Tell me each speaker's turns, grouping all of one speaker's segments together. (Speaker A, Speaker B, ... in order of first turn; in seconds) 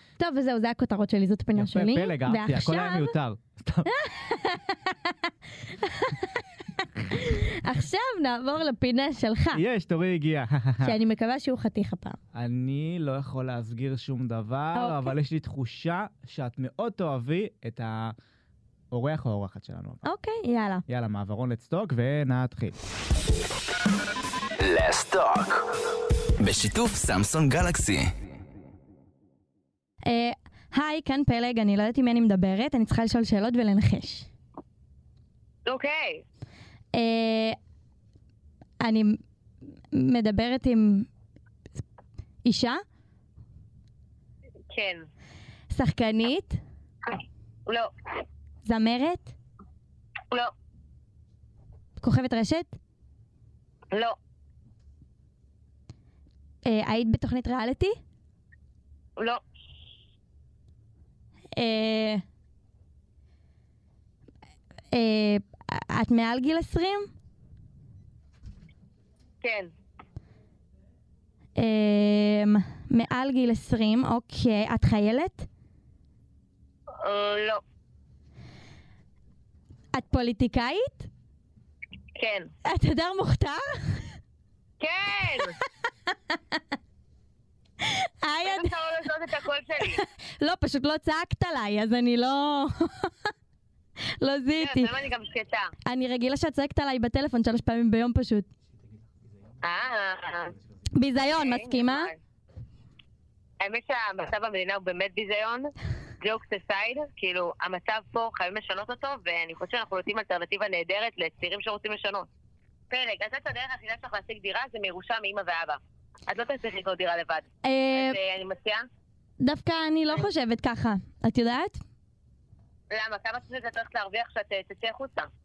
Speaker A: 0.2-3.1, 3.9-9.6, 10.8-12.2, 14.7-15.2, 20.0-20.8, 30.0-34.3, 36.9-37.6, 38.8-39.2, 39.9-41.1, 42.4-42.8, 45.7-46.6, 48.6-49.3, 52.0-52.8, 56.6-58.0, 61.5-62.2, 64.9-67.1, 71.5-75.5, 79.9-81.1, 82.6-84.2, 86.1-86.6, 87.8-88.7, 89.8-93.3, 94.0-94.9, 95.8-98.5, 100.9-102.1, 117.6-118.2, 119.4-121.8
Speaker B: 1.5-3.9, 9.5-10.9, 12.3-18.1, 18.9-20.1, 20.9-22.8
Speaker C: 24.6-25.7, 26.4-28.1
Speaker D: 35.6-36.2, 44.7-45.1, 47.0-48.2, 53.9-54.1, 69.4-69.7, 77.0-77.6, 82.2-82.5, 84.8-85.6, 88.4-90.0, 94.6-95.7, 99.6-100.5, 101.2-102.2, 103.6-112.3, 112.9-118.8, 122.9-125.3